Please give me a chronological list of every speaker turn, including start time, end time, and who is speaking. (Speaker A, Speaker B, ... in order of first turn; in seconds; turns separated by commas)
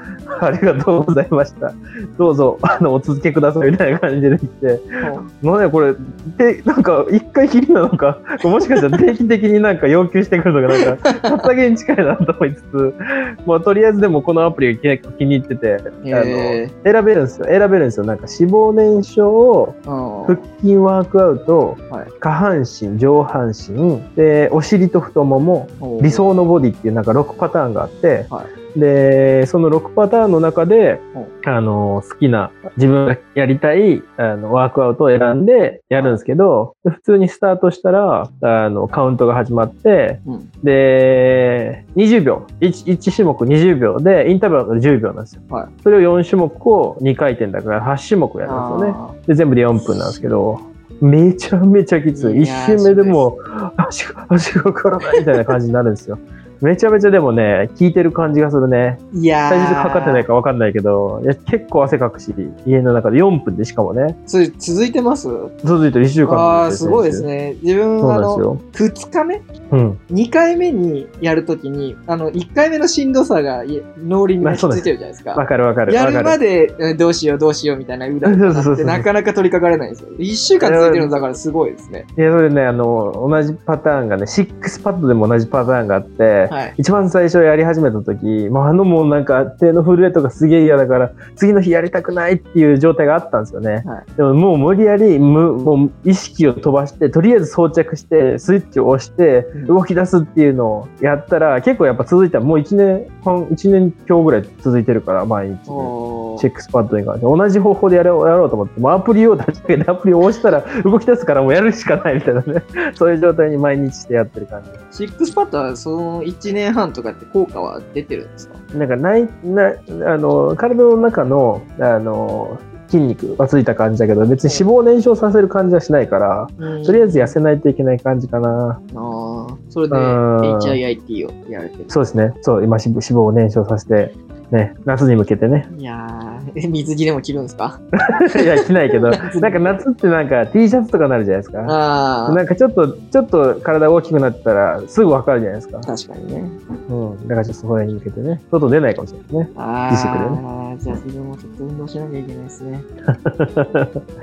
Speaker A: 0.4-19.8, Speaker B: 5.0-5.2, Speaker B: 11.0-11.4, Speaker B: 16.0-16.7, Speaker B: 19.9-20.4, Speaker A: 20.3-64.2, Speaker B: 25.8-26.3, Speaker B: 40.2-40.5, Speaker B: 48.5-49.2, Speaker B: 52.1-53.3, Speaker B: 55.1-55.4, Speaker B: 59.1-60.3, Speaker B: 64.3-65.5, Speaker A: 65.6-67.3, Speaker B: 66.2-69.5, Speaker A: 68.0-68.6, Speaker A: 69.7-70.0, Speaker B: 70.1-82.0, Speaker A: 74.4-76.4, Speaker A: 78.2-79.0, Speaker A: 80.6-81.1, Speaker A: 82.2-114.8, Speaker B: 86.5-86.8, Speaker B: 105.7-106.5, Speaker B: 114.9-118.6, Speaker A: 118.7-128.8, Speaker B: 124.4-124.7, Speaker B: 126.6-127.3, Speaker B: 128.9-131.9, Speaker A: 129.9-130.8, Speaker A: 131.9-135.7, Speaker B: 135.7-139.8, Speaker A: 138.1-141.8, Speaker B: 141.6-142.4, Speaker A: 142.3-145.9, Speaker B: 145.8-146.6, Speaker A: 146.9-150.4, Speaker B: 149.5-152.9, Speaker A: 153.2-153.9